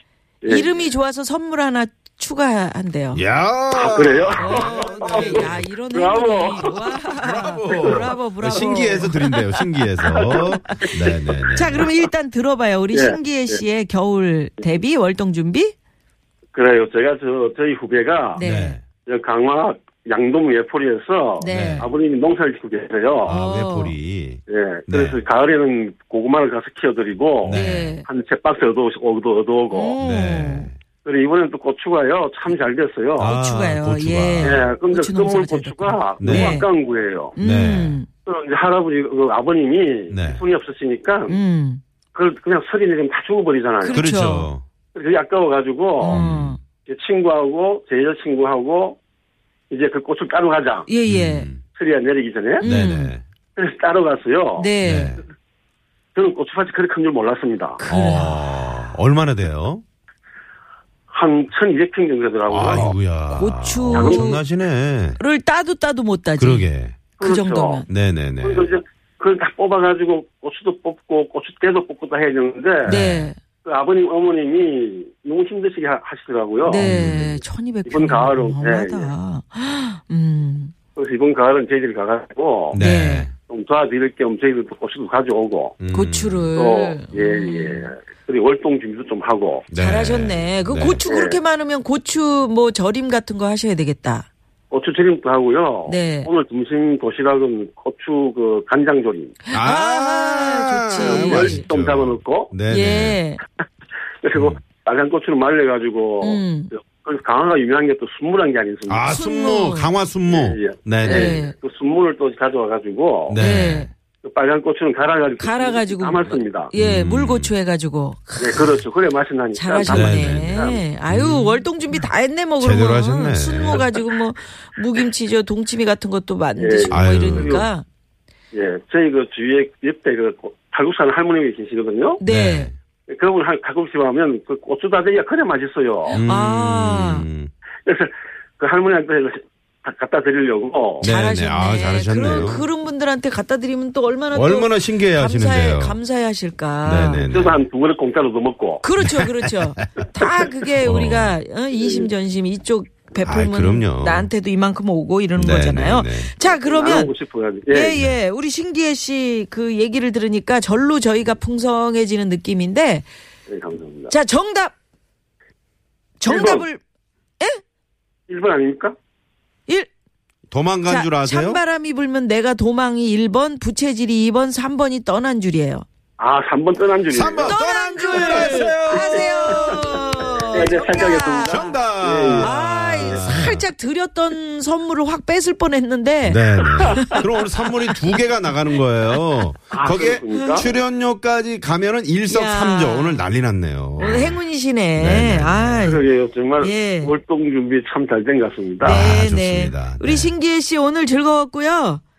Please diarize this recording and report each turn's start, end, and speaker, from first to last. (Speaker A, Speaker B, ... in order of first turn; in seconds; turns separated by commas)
Speaker A: 0.4-0.7, Speaker B: 0.4-3.2, Speaker C: 3.1-5.7, Speaker A: 3.7-6.8, Speaker B: 4.4-9.6, Speaker C: 6.6-11.9, Speaker A: 7.8-8.6, Speaker A: 10.1-11.4, Speaker B: 11.5-15.7, Speaker A: 12.9-13.6, Speaker A: 16.5-18.4, Speaker B: 18.4-18.8, Speaker C: 18.4-18.8, Speaker A: 19.1-23.3, Speaker B: 21.4-21.9, Speaker C: 21.4-21.9, Speaker C: 23.2-25.2, Speaker B: 23.3-23.9, Speaker A: 24.5-30.0, Speaker C: 27.4-27.9, Speaker B: 27.4-28.1, Speaker B: 29.7-30.7, Speaker C: 30.0-30.8, Speaker A: 31.0-33.3, Speaker C: 33.2-34.6, Speaker B: 33.2-36.7, Speaker A: 34.4-37.3, Speaker C: 36.2-36.6, Speaker B: 37.4-38.1, Speaker C: 37.4-38.0, Speaker A: 38.2-41.4, Speaker C: 40.1-40.4, Speaker B: 41.3-41.8, Speaker A: 42.1-44.0, Speaker B: 43.8-44.5, Speaker C: 43.8-44.6, Speaker A: 44.9-46.2, Speaker B: 46.0-46.6, Speaker C: 46.1-46.6, Speaker A: 46.9-49.0, Speaker A: 49.7-50.9, Speaker B: 50.9-51.5, Speaker C: 51.0-51.6, Speaker A: 51.8-52.6, Speaker B: 52.6-53.1, Speaker C: 52.6-53.2, Speaker A: 53.6-54.7, Speaker B: 54.5-55.2, Speaker C: 54.8-55.2, Speaker A: 56.1-57.8, Speaker B: 57.8-58.8, Speaker C: 57.9-59.8, Speaker A: 61.1-62.9, Speaker C: 62.5-65.2, Speaker B: 63.3-64.4, Speaker A: 63.9-64.3, Speaker B: 65.2-67.8, Speaker C: 66.4-67.0, Speaker A: 67.2-67.8, Speaker C: 67.9-68.7, Speaker A: 68.4-73.0, Speaker C: 72.8-73.3, Speaker B: 72.8-73.4, Speaker A: 73.6-76.9, Speaker B: 76.6-80.7, Speaker C: 76.7-77.4, Speaker A: 77.8-79.1, Speaker A: 81.0-82.8, Speaker C: 82.7-83.3, Speaker B: 82.7-83.3, Speaker A: 83.4-85.8, Speaker C: 85.8-86.5, Speaker B: 85.9-87.9, Speaker A: 86.5-89.7, Speaker C: 89.7-91.0, Speaker B: 89.7-94.3, Speaker A: 91.0-91.4, Speaker A: 94.7-99.4, Speaker B: 95.9-96.3, Speaker B: 99.5-101.6, Speaker C: 99.5-103.2, Speaker A: 101.0-102.5, Speaker B: 102.7-103.4, Speaker A: 104.2-109.0, Speaker B: 106.2-106.7, Speaker C: 108.9-111.4, Speaker B: 109.1-109.9, Speaker A: 110.3-113.4, Speaker B: 111.0-111.5, Speaker C: 113.3-113.9, Speaker B: 113.3-113.9, Speaker A: 114.2-116.7, Speaker B: 115.4-118.8, Speaker C: 116.7-117.5, Speaker A: 118.4-120.8, Speaker B: 119.5-127.8, Speaker C: 119.8-121.7, Speaker C: 122.6-123.9, Speaker A: 126.6-127.7, Speaker C: 126.9-127.7, Speaker A: 128.5-132.2, Speaker B: 132.2-132.7, Speaker C: 132.2-132.7, Speaker A: 133.1-136.2, Speaker B: 136.1-137.3, Speaker C: 136.1-137.5, Speaker A: 137.8-141.1, Speaker B: 141.0-147.3, Speaker C: 141.0-142.7, Speaker C: 144.3-146.0, Speaker C: 146.8-147.6, Speaker A: 147.3-148.8, Speaker B: 148.8-157.1, Speaker C: 149.0-151.4, Speaker A: 151.8-152.1, Speaker C: 153.2-154.3, Speaker C: 155.4-156.3, Speaker A: 156.4-158.0, Speaker B: 157.7-163.1, Speaker A: 163.5-164.1, Speaker B: 164.1-164.7, Speaker B: 166.2-166.8, Speaker A: 166.2-166.7, Speaker A: 168.3-168.9, Speaker C: 170.5-171.6, Speaker B: 170.9-175.8, Speaker A: 176.2-177.6, Speaker C: 177.1-180.7, Speaker B: 177.4-181.8, Speaker A: 178.1-179.8, Speaker A: 180.5-183.2, Speaker C: 181.4-183.6, Speaker B: 182.4-187.2, Speaker C: 186.2-194.4, Speaker A: 186.8-187.2, Speaker A: 189.7-190.7, Speaker B: 190.3-190.7, Speaker B: 192.3-193.2, Speaker B: 194.0-196.0, Speaker C: 194.9-195.9, Speaker A: 195.8-199.0, Speaker B: 196.6-197.1, Speaker B: 198.8-202.0, Speaker C: 198.8-200.3